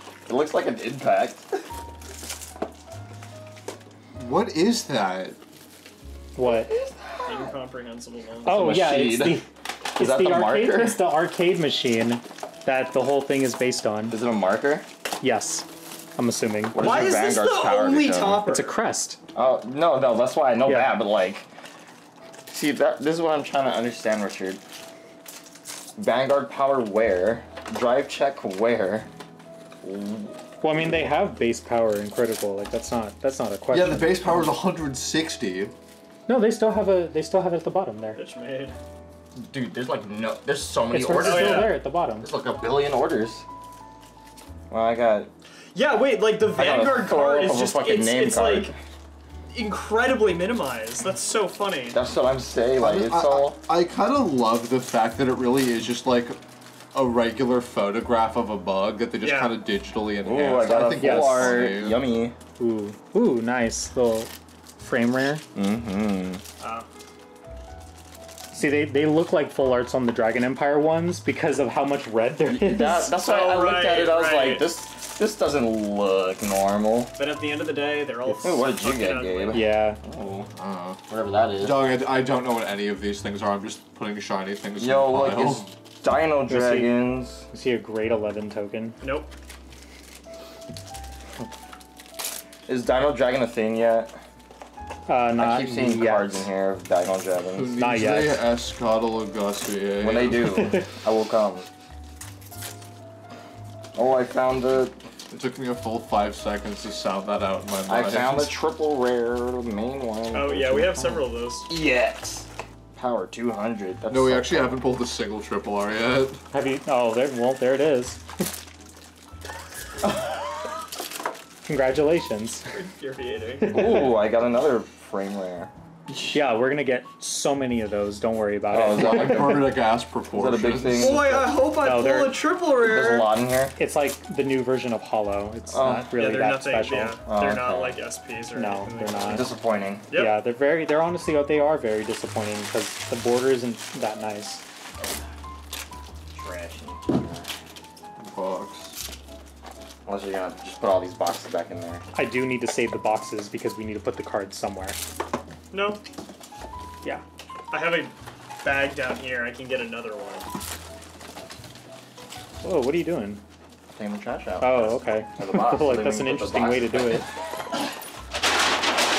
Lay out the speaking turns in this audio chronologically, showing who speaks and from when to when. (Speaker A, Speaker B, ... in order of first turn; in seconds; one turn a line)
Speaker A: 0.3-1.4
Speaker B: 4.2-5.4
Speaker C: 6.3-6.7
Speaker A: 6.4-7.5
Speaker D: 7.2-8.8
Speaker C: 8.4-14.2
Speaker A: 8.5-9.4
Speaker A: 10.0-11.1
Speaker A: 14.1-14.9
Speaker C: 15.2-15.7
Speaker C: 16.2-16.9
Speaker A: 16.7-18.5
Speaker D: 16.8-18.7
Speaker C: 18.5-19.2
Speaker A: 19.3-21.5
Speaker C: 20.6-21.0
Speaker A: 22.5-24.6
Speaker A: 26.0-29.1
Speaker A: 29.8-30.4
Speaker C: 30.6-34.4
Speaker B: 33.7-35.7
Speaker C: 36.3-38.2
Speaker D: 38.1-38.8
Speaker A: 39.4-43.4
Speaker C: 40.9-42.3
Speaker D: 41.2-41.8
Speaker A: 44.7-45.3
Speaker D: 45.7-48.7
Speaker A: 46.5-48.8
Speaker D: 49.5-52.0
Speaker A: 51.9-53.6
Speaker B: 52.8-56.4
Speaker B: 56.9-62.1
Speaker D: 59.2-59.6
Speaker A: 60.2-62.4
Speaker C: 60.9-61.8
Speaker C: 62.6-65.4
Speaker A: 65.5-66.4
Speaker D: 66.6-66.9
Speaker C: 68.5-73.2
Speaker A: 72.5-77.2
Speaker D: 73.2-74.7
Speaker D: 77.2-79.7
Speaker C: 78.2-78.6
Speaker A: 78.4-80.5
Speaker C: 79.5-80.0
Speaker B: 80.5-81.0
Speaker A: 81.1-81.9
Speaker B: 81.6-85.7
Speaker A: 84.8-87.5
Speaker C: 86.5-86.9
Speaker C: 87.5-89.0
Speaker D: 89.0-89.3
Speaker A: 92.7-94.2
Speaker C: 95.1-96.5
Speaker A: 95.4-97.8
Speaker B: 97.5-100.7
Speaker C: 97.8-98.4
Speaker A: 100.0-101.7
Speaker C: 100.5-100.9
Speaker A: 103.9-104.9
Speaker B: 105.3-108.6
Speaker A: 107.9-114.8
Speaker D: 110.3-111.7
Speaker B: 114.1-116.4
Speaker C: 116.5-118.2
Speaker C: 121.7-122.7
Speaker D: 122.7-124.1
Speaker A: 123.7-125.7
Speaker C: 126.3-129.7
Speaker A: 128.7-131.5
Speaker B: 129.0-131.5
Speaker D: 130.9-133.3
Speaker C: 131.8-132.4
Speaker A: 132.8-133.8
Speaker C: 133.8-137.2
Speaker A: 135.7-136.2
Speaker D: 136.2-139.5
Speaker A: 137.2-138.0
Speaker C: 138.5-139.5
Speaker A: 139.2-140.1
Speaker D: 140.1-140.4
Speaker C: 140.1-144.6
Speaker A: 146.3-147.5
Speaker B: 148.2-149.0
Speaker A: 150.1-152.0
Speaker C: 152.1-155.0
Speaker D: 155.7-156.0
Speaker D: 157.7-160.5
Speaker C: 162.6-163.4
Speaker A: 163.9-167.3
Speaker C: 164.6-167.2